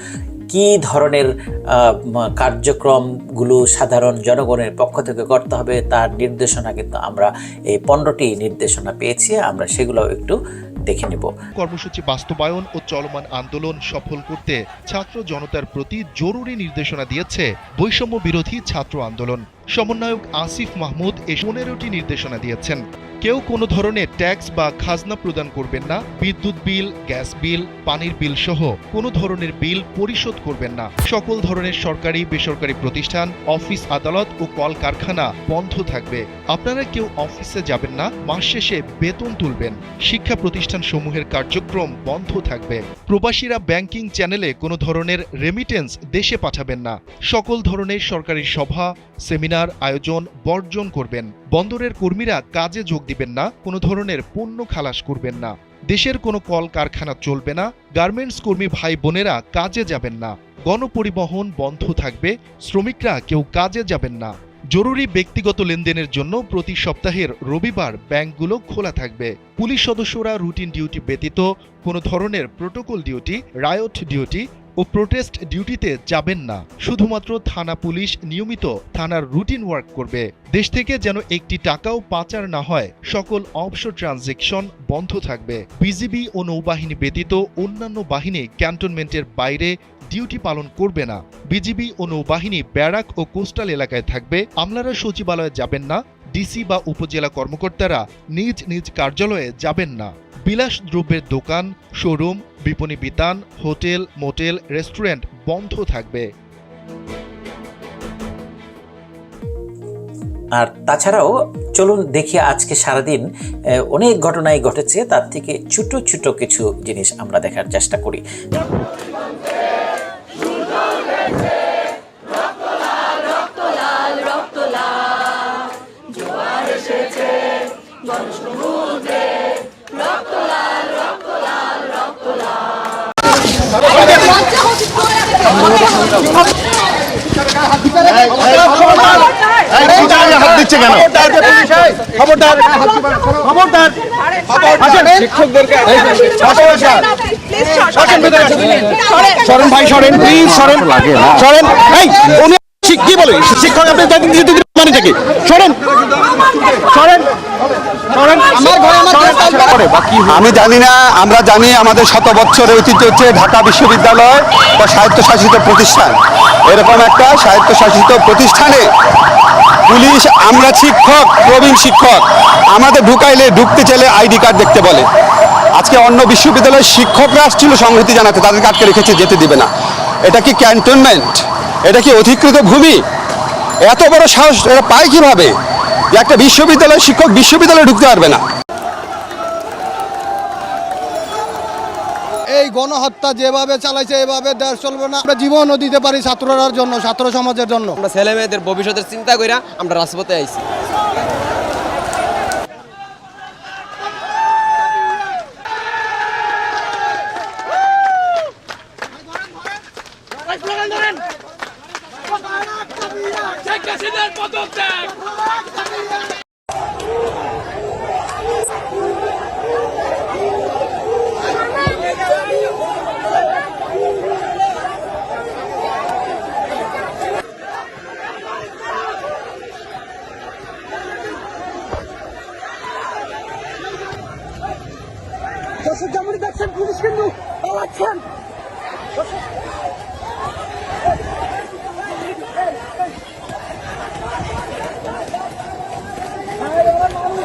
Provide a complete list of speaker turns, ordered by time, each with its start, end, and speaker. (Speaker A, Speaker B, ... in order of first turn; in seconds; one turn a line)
Speaker A: 0.5-11.3
Speaker B: 11.5-106.3
Speaker A: 110.6-113.2
Speaker A: 113.9-118.2
Speaker C: 140.0-140.3
Speaker D: 150.0-152.0
Speaker E: 151.7-153.6
Speaker D: 153.5-155.1
Speaker E: 158.2-168.9
Speaker E: 169.9-175.1
Speaker E: 175.7-179.7
Speaker E: 180.2-183.0
Speaker E: 183.8-185.5
Speaker E: 186.1-188.4
Speaker C: 192.5-198.0
Speaker F: 198.0-200.6